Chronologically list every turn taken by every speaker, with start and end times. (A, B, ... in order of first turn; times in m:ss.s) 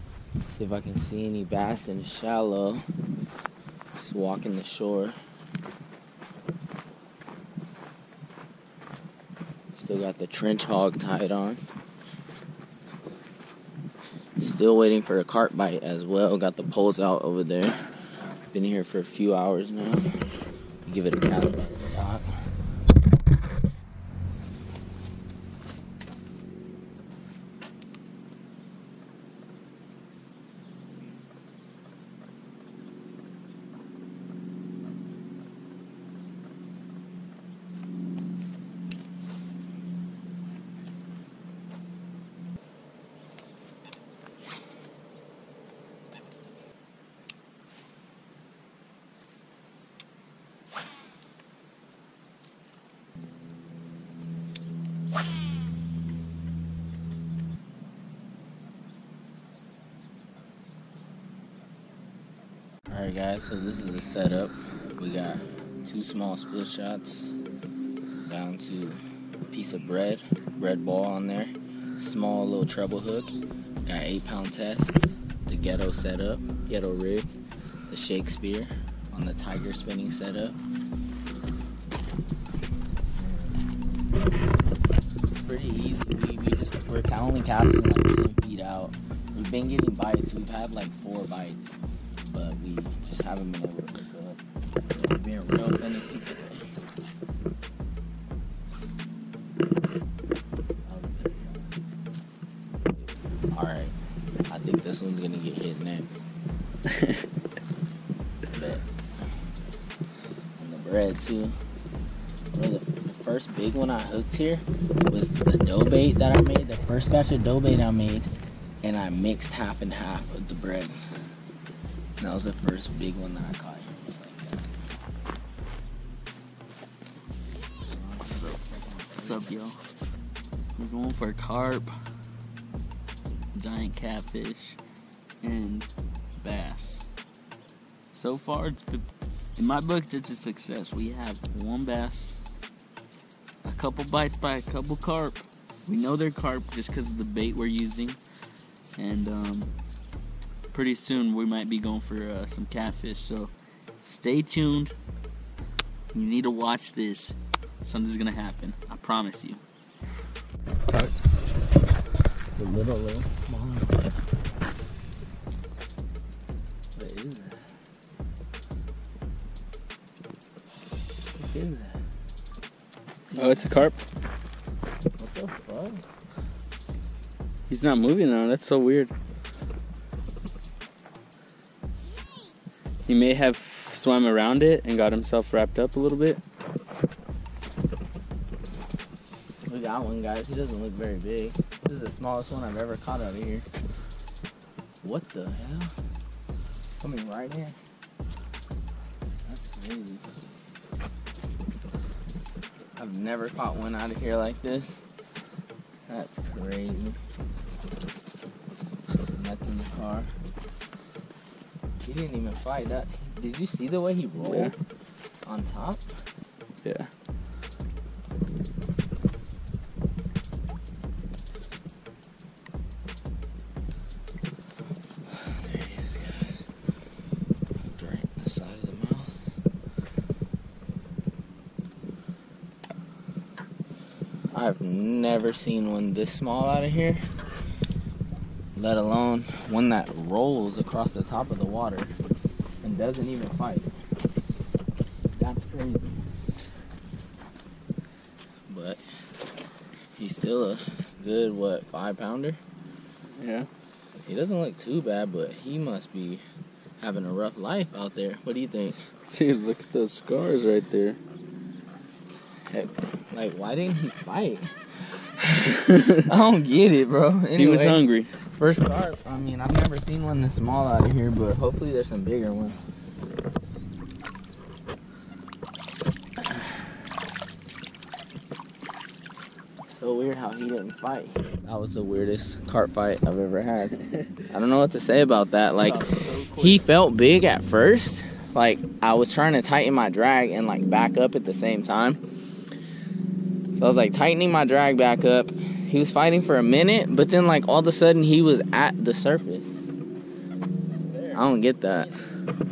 0:00.6-0:02.8 A
0:04.0-0:05.2 A
0:09.7-0:11.6 A
0:14.4-0:17.8 A
0:18.5-0:20.1 A
0:20.8-0:22.3 A
1:02.9-1:07.3 A
1:08.2-1:17.3 A
1:17.9-1:20.6 A
1:23.2-1:23.6 A
1:25.4-1:31.7 A
1:32.3-1:34.4 A
1:35.0-1:36.7 A
1:40.9-1:41.7 A
1:43.5-1:44.0 A
1:44.5-1:46.3 A
1:46.9-1:47.2 B
1:48.5-1:48.8 A
1:50.6-1:51.6 A
1:52.5-1:58.3 A
1:58.8-2:00.9 A
2:02.2-2:04.7 A
2:07.9-2:09.6 A
2:08.2-2:08.6 B
2:09.2-2:09.8 B
2:10.8-2:11.9 B
2:13.6-2:14.8 B
2:15.4-2:17.1 B
2:18.1-2:22.4 B
2:23.6-2:28.2 B
2:29.0-2:29.7 B
2:30.7-2:35.0 B
2:36.1-2:39.6 B
2:40.9-2:41.2 A
2:42.6-2:44.2 A
2:47.0-2:47.6 A
2:51.3-2:52.0 A
2:53.3-2:53.9 A
2:53.4-2:54.0 B
2:55.2-2:56.0 A
2:57.7-2:59.1 B
3:03.1-3:06.4 B
3:09.6-3:13.7 A
3:15.0-3:15.9 A
3:17.0-3:17.8 A
3:19.5-3:20.3 A
3:23.0-3:25.0 A
3:26.1-3:27.2 A
3:29.3-3:30.3 A
3:32.0-3:34.7 A
3:34.4-3:34.7 B
3:35.5-3:36.0 A
3:36.8-3:37.1 B
3:45.4-3:46.7 A
3:47.8-3:49.4 A
3:54.5-3:57.2 A
3:58.8-4:02.1 A
4:02.8-4:03.9 A
4:05.4-4:06.2 A
4:08.7-4:09.0 A
4:10.2-4:12.6 A
4:13.4-4:13.7 B
4:14.2-4:16.4 A
4:17.0-4:19.0 A
4:19.3-4:21.2 B
4:22.7-4:28.0 A
4:25.7-4:26.3 B
4:27.6-4:28.3 B
4:28.5-4:32.8 A
4:39.9-4:44.0 A
4:44.5-4:46.0 A
4:45.8-4:46.9 B
4:46.6-4:52.2 A
4:53.7-4:59.7 A
5:01.1-5:01.4 B
5:01.3-5:02.1 A